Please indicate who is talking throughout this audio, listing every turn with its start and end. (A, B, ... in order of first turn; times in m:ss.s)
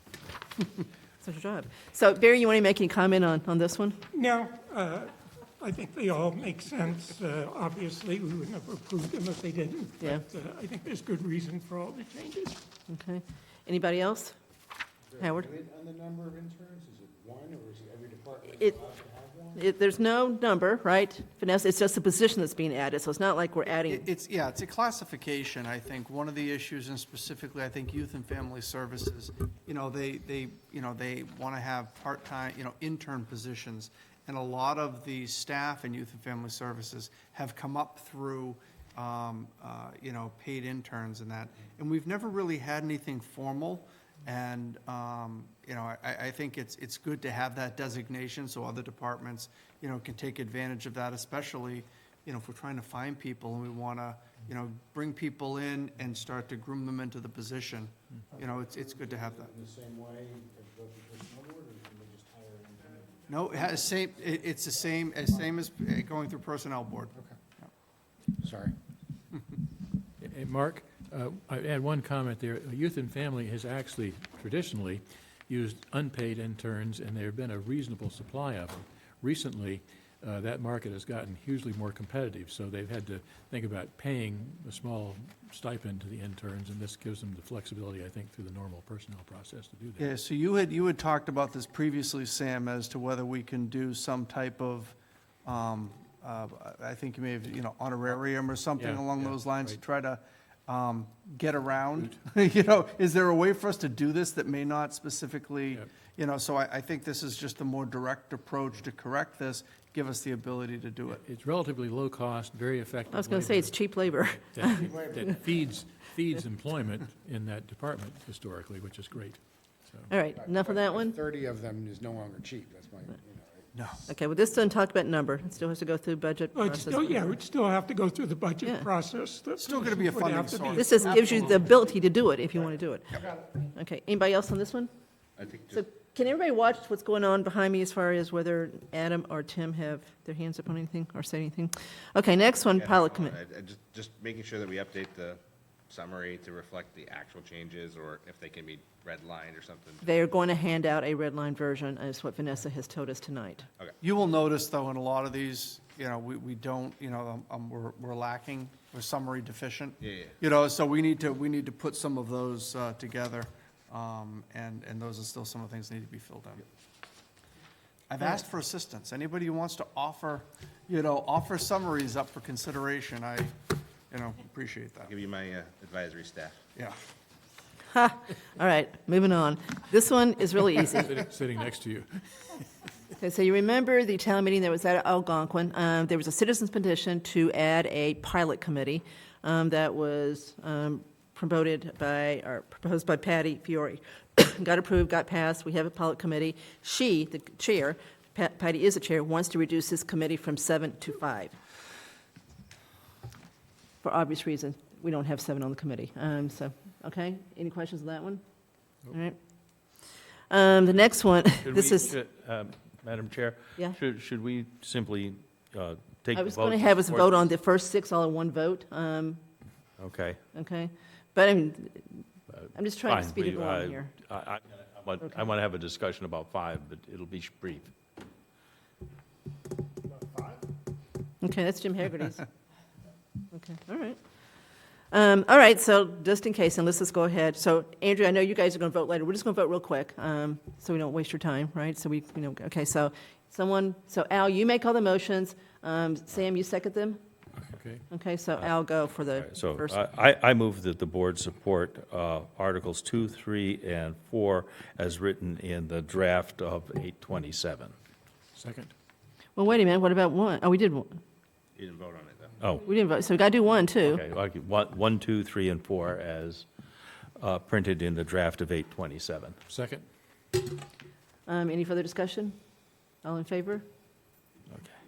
0:01.2-0:04.0 A
0:04.1-0:12.6 B
0:12.9-0:14.3 A
0:15.1-0:19.7 C
0:15.2-0:15.5 A
0:19.5-0:24.1 A
0:23.8-0:59.5 D
0:58.3-1:04.6 C
1:03.3-1:07.7 D
1:08.4-1:08.7 C
1:10.2-1:30.1 E
1:30.0-1:51.2 D
1:38.8-1:39.8 E
1:51.1-2:00.1 E
1:53.1-1:54.9 A
1:54.8-1:55.7 C
2:00.1-2:01.2 A
2:00.3-2:03.9 C
2:03.7-2:04.0 D
2:04.0-2:07.3 A
2:06.5-2:11.4 B
2:08.6-2:08.9 A
2:09.6-2:11.8 D
2:10.8-2:14.9 A
2:15.4-2:15.8 F
2:15.7-2:23.3 A
2:22.7-2:30.1 F
2:30.0-2:33.7 A
2:34.0-2:46.6 D
2:40.0-2:40.3 F
2:48.1-2:53.5 D
2:54.1-2:55.1 D
2:55.0-2:56.6 F
2:57.9-3:01.1 A
3:00.9-3:02.1 E
3:03.2-3:21.6 A
3:24.0-3:28.4 A
3:29.0-3:29.4 A
3:30.5-3:32.1 A
3:31.6-3:37.5 G
3:36.3-3:39.4 A
3:40.0-3:40.4 G
3:40.5-3:44.1 A
3:42.6-3:47.9 G
3:51.4-3:52.4 A
3:53.5-3:54.2 A
3:55.1-4:07.2 A
4:07.7-4:08.0 E
4:08.1-4:10.0 A
4:09.3-4:17.9 G
4:18.5-4:18.9 E
4:19.6-4:21.2 A
4:21.8-4:22.6 F
4:22.8-4:24.2 A
4:24.0-4:26.6 G
4:27.4-4:29.6 G
4:29.7-4:30.0 E
4:31.4-4:32.6 A
4:33.2-4:33.8 A